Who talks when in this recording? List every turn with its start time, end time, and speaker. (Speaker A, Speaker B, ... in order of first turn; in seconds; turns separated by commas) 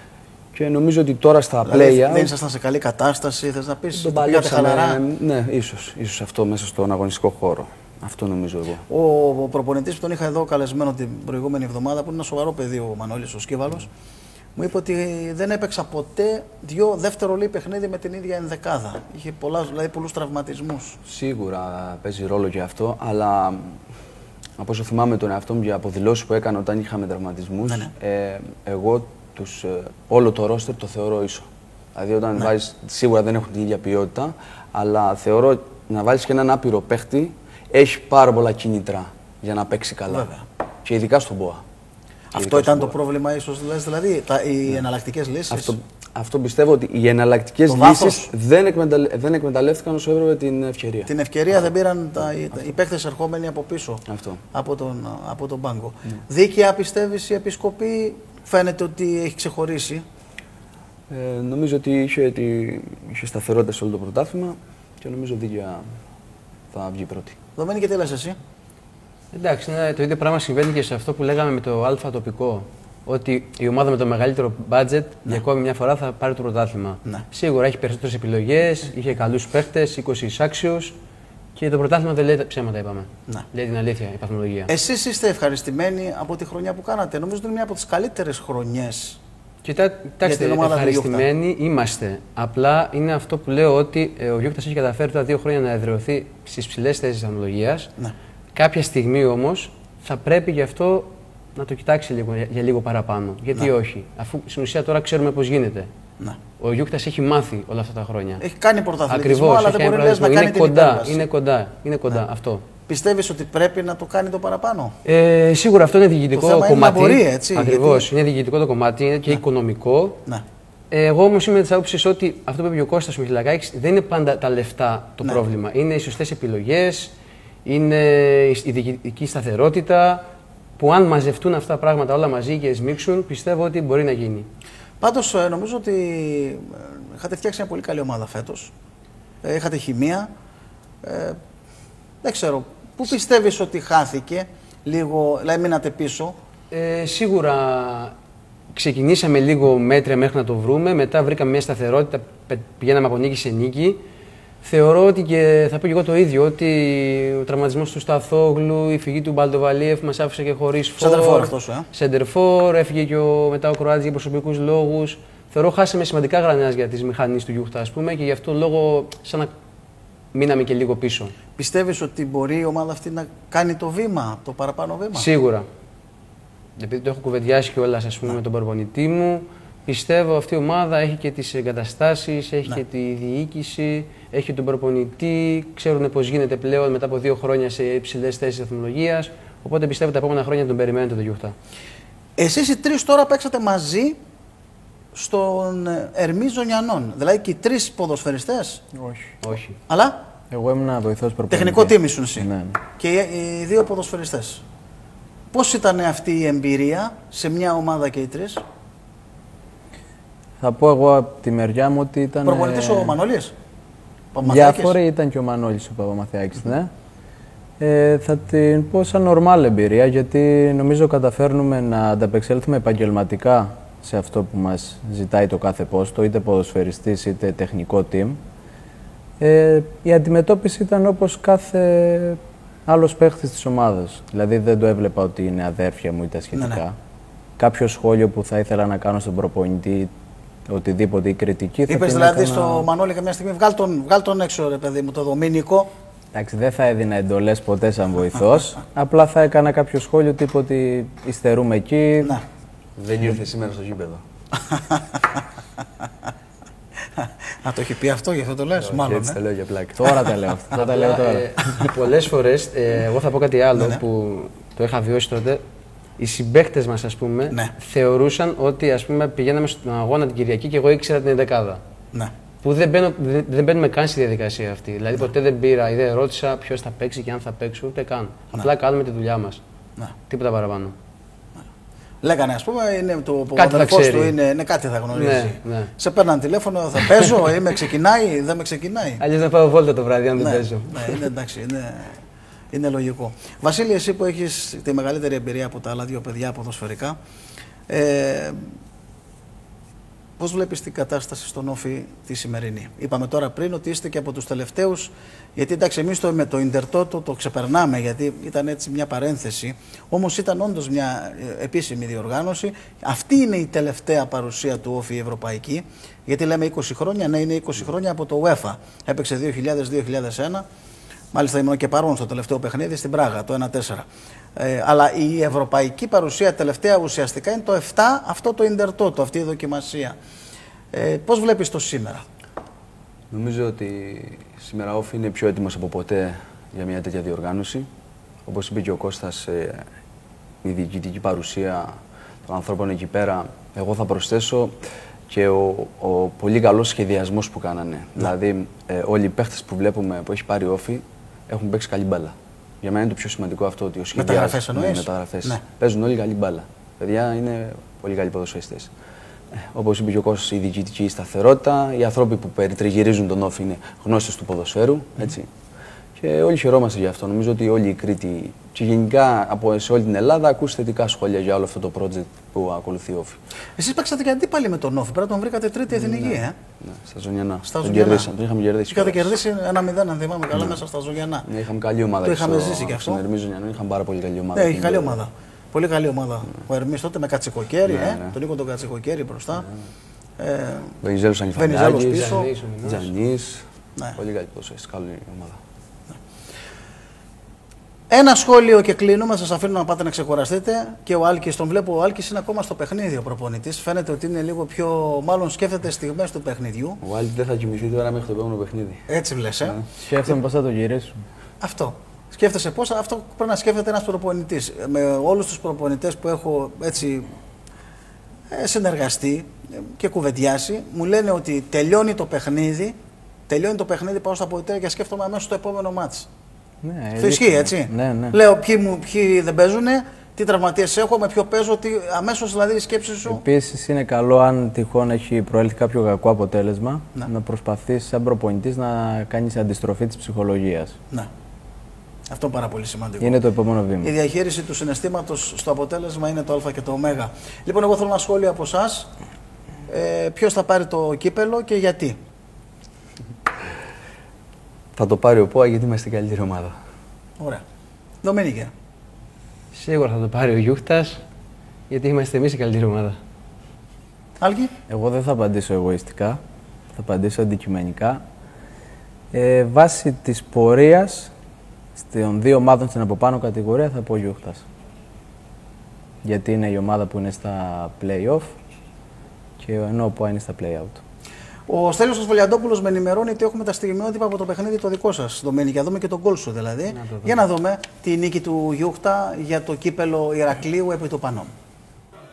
Speaker A: 0.5-2.3, Speaker B: 1.6-5.0, Speaker A: 3.9-8.8, Speaker B: 8.9-13.9, Speaker B: 14.6-21.0, Speaker A: 21.1-23.8, Speaker A: 24.6-40.3, Speaker B: 40.1-40.4, Speaker A: 40.9-41.6, Speaker B: 42.3-45.7, Speaker A: 42.3-42.9, Speaker A: 45.5-51.1, Speaker B: 47.7-48.3, Speaker B: 51.1-60.0, Speaker A: 54.1-54.4, Speaker A: 61.1-65.8, Speaker A: 66.7-67.3, Speaker B: 67.6-68.4, Speaker C: 69.3-80.9, Speaker C: 81.6-84.7, Speaker B: 84.7-89.2, Speaker C: 89.6-97.9, Speaker B: 90.2-91.3, Speaker C: 98.5-105.9, Speaker C: 106.6-108.4, Speaker B: 108.4-111.2, Speaker C: 109.1-112.7, Speaker B: 112.9-115.0, Speaker C: 115.0-120.2, Speaker B: 116.3-118.1, Speaker C: 120.9-127.1, Speaker C: 127.7-130.2, Speaker C: 130.8-134.5, Speaker B: 135.0-138.7, Speaker B: 139.4-140.3, Speaker B: 141.0-141.4, Speaker B: 142.2-146.3, Speaker C: 146.7-148.1, Speaker C: 148.7-154.0, Speaker C: 154.6-169.5, Speaker B: 161.0-161.9, Speaker C: 170.3-171.3, Speaker B: 171.6-175.3, Speaker C: 175.1-175.7, Speaker C: 176.8-191.6, Speaker B: 192.4-194.2, Speaker B: 195.1-198.8, Speaker D: 198.9-199.3, Speaker C: 199.4-199.8, Speaker B: 199.9-200.2, Speaker D: 200.5-202.8, Speaker B: 201.5-204.6, Speaker B: 205.5-208.6, Speaker D: 210.6-213.2, Speaker B: 212.4-213.5, Speaker B: 214.3-215.0, Speaker D: 214.4-216.9, Speaker D: 217.8-228.4, Speaker D: 229.4-236.9, Speaker B: 236.5-236.8, Speaker D: 237.6-240.1, Speaker D: 240.7-242.9, Speaker B: 241.9-245.9, Speaker D: 246.3-252.4, Speaker A: 253.0-254.2, Speaker B: 254.7-255.2, Speaker B: 257.2-259.4, Speaker A: 258.8-260.1, Speaker D: 260.0-261.4, Speaker C: 260.7-265.6, Speaker C: 266.2-271.8, Speaker C: 272.6-279.6, Speaker C: 280.3-280.9, Speaker B: 282.2-289.2, Speaker C: 283.6-284.3, Speaker C: 285.1-285.9, Speaker C: 289.2-291.2, Speaker B: 290.4-292.2, Speaker B: 292.7-297.2, Speaker B: 297.9-298.7, Speaker B: 300.4-320.6, Speaker B: 321.3-324.1, Speaker B: 324.6-330.2, Speaker B: 330.9-332.2, Speaker A: 333.3-337.9, Speaker A: 338.5-339.8, Speaker A: 340.6-341.9, Speaker A: 342.5-344.8, Speaker A: 345.3-358.9, Speaker B: 354.1-355.6, Speaker A: 359.5-365.5, Speaker A: 366.2-373.4, Speaker B: 373.8-376.6, Speaker A: 375.9-379.3, Speaker B: 377.6-378.3, Speaker B: 378.9-381.5, Speaker A: 380.5-380.8, Speaker A: 381.5-385.2, Speaker B: 382.2-383.2, Speaker B: 384.6-389.7, Speaker A: 387.9-388.3, Speaker B: 390.4-391.0, Speaker A: 391.0-393.6, Speaker B: 391.6-392.5, Speaker C: 392.0-393.1, Speaker A: 394.2-395.6, Speaker B: 398.1-407.0, Speaker A: 407.0-409.1, Speaker B: 409.1-409.8, Speaker D: 409.9-411.2, Speaker B: 411.6-417.3, Speaker B: 418.5-423.0, Speaker B: 423.5-426.3, Speaker D: 426.8-428.4, Speaker B: 427.2-433.4, Speaker D: 433.3-441.0, Speaker B: 442.3-443.4, Speaker D: 443.2-444.1, Speaker B: 444.0-449.1, Speaker B: 449.9-452.2, Speaker A: 455.0-456.8, Speaker B: 458.2-458.7, Speaker C: 459.7-461.2, Speaker C: 461.9-463.2, Speaker B: 464.4-464.7, Speaker D: 464.9-466.4, Speaker D: 467.0-468.2, Speaker D: 469.3-471.3, Speaker D: 472.0-474.6, Speaker D: 476.2-478.5, Speaker D: 479.6-481.0, Speaker B: 481.7-491.5, Speaker C: 486.9-487.4